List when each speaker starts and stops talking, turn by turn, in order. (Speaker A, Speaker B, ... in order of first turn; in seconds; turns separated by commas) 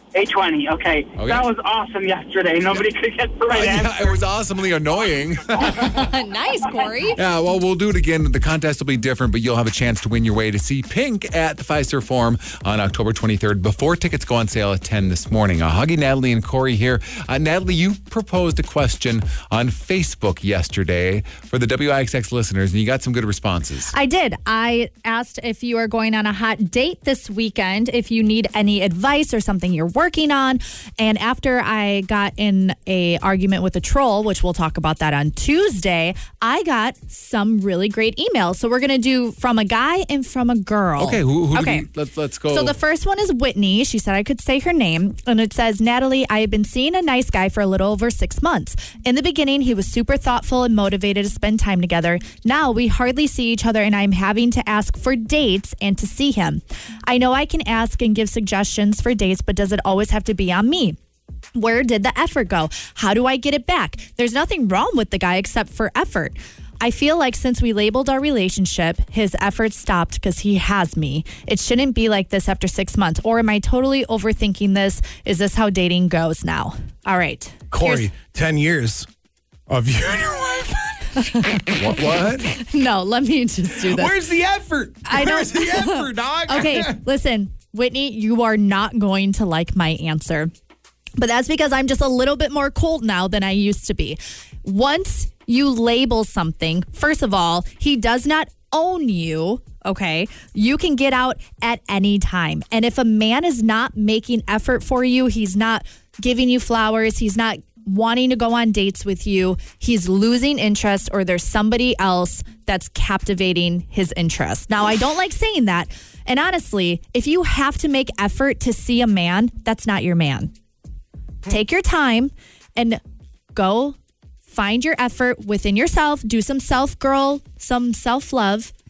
Speaker A: 0.1-4.2, Speaker B: 1.2-1.5, Speaker B: 3.5-6.0, Speaker C: 5.7-7.2, Speaker B: 7.2-23.9, Speaker C: 23.9-41.8, Speaker B: 41.0-42.8, Speaker C: 42.5-61.0, Speaker C: 61.5-78.1, Speaker D: 77.7-79.1, Speaker D: 79.7-81.1, Speaker C: 81.1-81.8, Speaker B: 81.7-82.5, Speaker C: 82.5-84.2, Speaker D: 83.8-87.0, Speaker C: 85.0-90.5, Speaker C: 91.2-120.5, Speaker C: 121.5-123.0, Speaker C: 123.5-124.0, Speaker C: 124.5-128.7